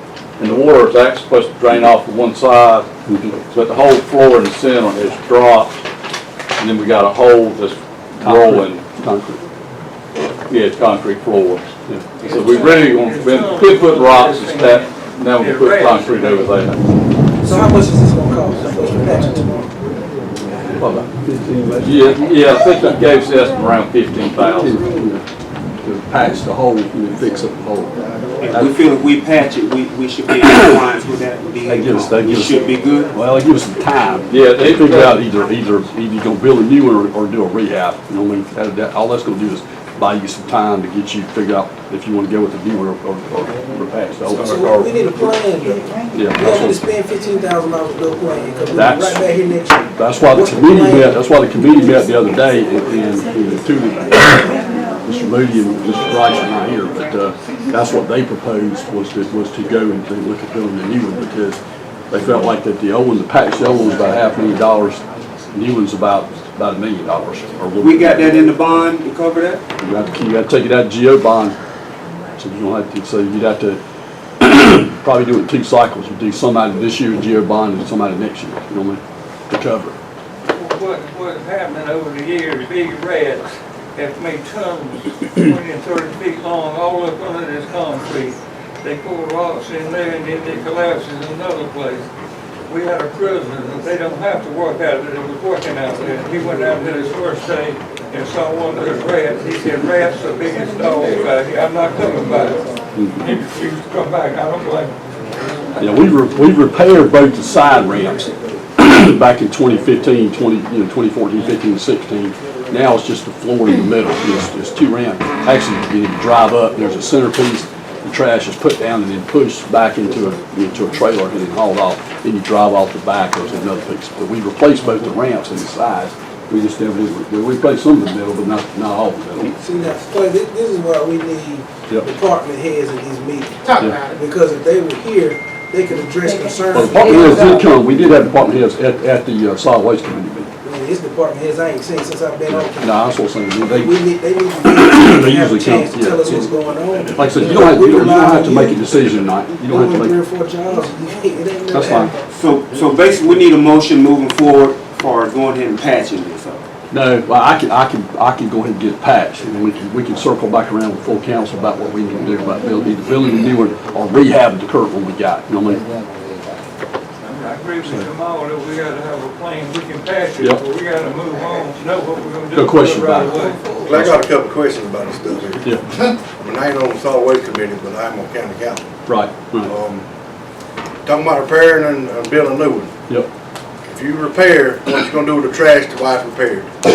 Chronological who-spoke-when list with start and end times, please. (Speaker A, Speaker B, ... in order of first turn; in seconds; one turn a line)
Speaker A: 0.4-2.9
Speaker B: 3.1-3.4
Speaker A: 3.4-5.8
Speaker A: 6.6-8.8
Speaker B: 8.2-9.4
Speaker A: 10.5-11.7
Speaker C: 12.2-16.5
Speaker A: 12.2-16.8
Speaker D: 17.4-19.7
Speaker B: 20.7-22.2
Speaker A: 21.8-24.9
Speaker B: 24.6-25.2
Speaker B: 25.8-28.0
Speaker E: 28.4-33.1
Speaker B: 31.7-44.6
Speaker A: 34.3-35.3
Speaker A: 44.3-44.9
Speaker D: 44.5-51.1
Speaker B: 46.1-46.8
Speaker B: 48.7-49.3
Speaker B: 50.0-61.6
Speaker B: 62.1-68.2
Speaker E: 67.8-69.6
Speaker B: 69.8-71.6
Speaker B: 72.4-73.8
Speaker B: 74.4-80.0
Speaker C: 80.5-92.1
Speaker C: 92.7-105.0
Speaker B: 105.8-129.6
Speaker D: 129.6-137.6
Speaker B: 136.7-140.5
Speaker D: 140.6-142.9
Speaker B: 142.5-144.0
Speaker D: 143.6-148.8
Speaker B: 144.7-146.5
Speaker B: 147.1-150.2
Speaker D: 149.7-152.1
Speaker B: 151.7-152.1
Speaker E: 152.3-156.6
Speaker B: 156.9-165.8
Speaker C: 167.2-173.7
Speaker B: 172.5-174.1
Speaker F: 173.8-175.8
Speaker F: 176.4-178.9
Speaker B: 179.1-179.7
Speaker F: 179.7-180.1
Speaker F: 181.1-182.9
Speaker F: 183.8-186.7